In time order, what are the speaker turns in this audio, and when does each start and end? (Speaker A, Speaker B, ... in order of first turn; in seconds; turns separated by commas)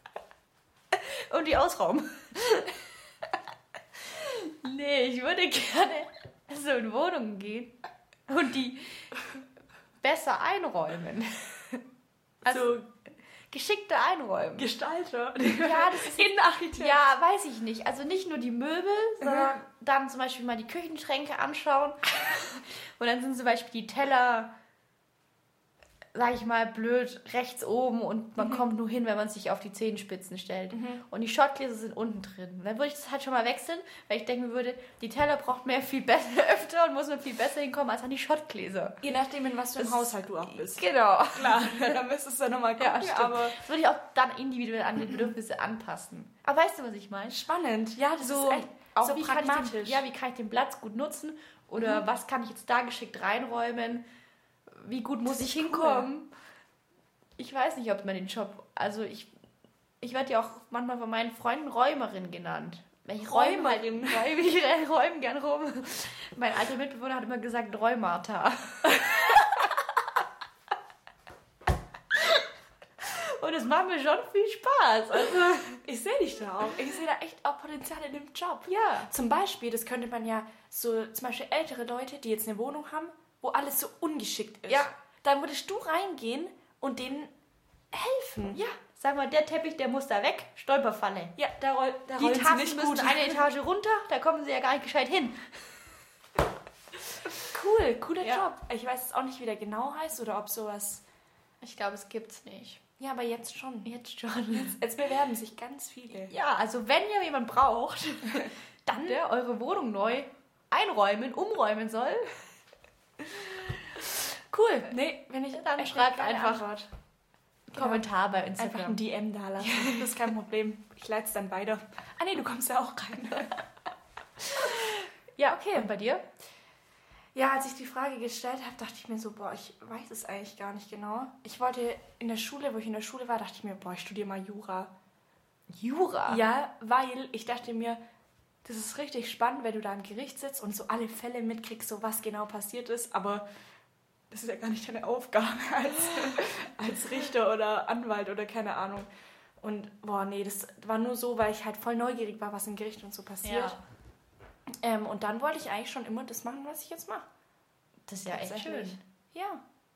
Speaker A: 0.9-3.4, Speaker A: 4.0-7.8, Speaker A: 8.3-9.1, Speaker A: 10.0-11.8, Speaker A: 12.4-12.8, Speaker B: 12.4-12.8, Speaker A: 13.5-14.7, Speaker B: 14.6-17.0, Speaker A: 15.5-24.5, Speaker A: 26.1-39.0, Speaker B: 30.7-31.0, Speaker B: 39.0-43.6, Speaker A: 39.8-42.0, Speaker A: 42.8-47.4, Speaker B: 47.3-50.0, Speaker A: 48.2-54.0, Speaker A: 54.7-56.3, Speaker B: 55.4-56.1, Speaker A: 57.4-59.3, Speaker A: 60.0-69.7, Speaker B: 63.2-64.3, Speaker A: 72.1-72.5, Speaker A: 73.0-75.8, Speaker B: 75.8-87.3, Speaker A: 78.7-79.1, Speaker B: 87.9-88.6, Speaker A: 88.5-91.3, Speaker B: 91.3-93.4, Speaker A: 92.2-95.5, Speaker B: 97.4-101.0, Speaker A: 101.6-102.8, Speaker B: 103.0-103.9, Speaker A: 103.8-104.8, Speaker B: 104.5-106.3, Speaker A: 106.2-112.5, Speaker B: 108.4-109.2, Speaker A: 113.2-113.7, Speaker B: 114.5-116.9, Speaker A: 115.5-116.7, Speaker A: 117.7-119.0, Speaker B: 117.8-118.0, Speaker B: 118.6-123.6, Speaker A: 119.6-120.1, Speaker A: 125.4-126.2, Speaker B: 127.3-134.9, Speaker A: 135.7-136.4, Speaker B: 136.3-138.0, Speaker B: 138.6-143.4, Speaker B: 144.3-149.1, Speaker B: 149.6-153.8, Speaker A: 153.4-153.8, Speaker B: 154.8-157.2, Speaker A: 158.1-159.0, Speaker B: 158.3-159.6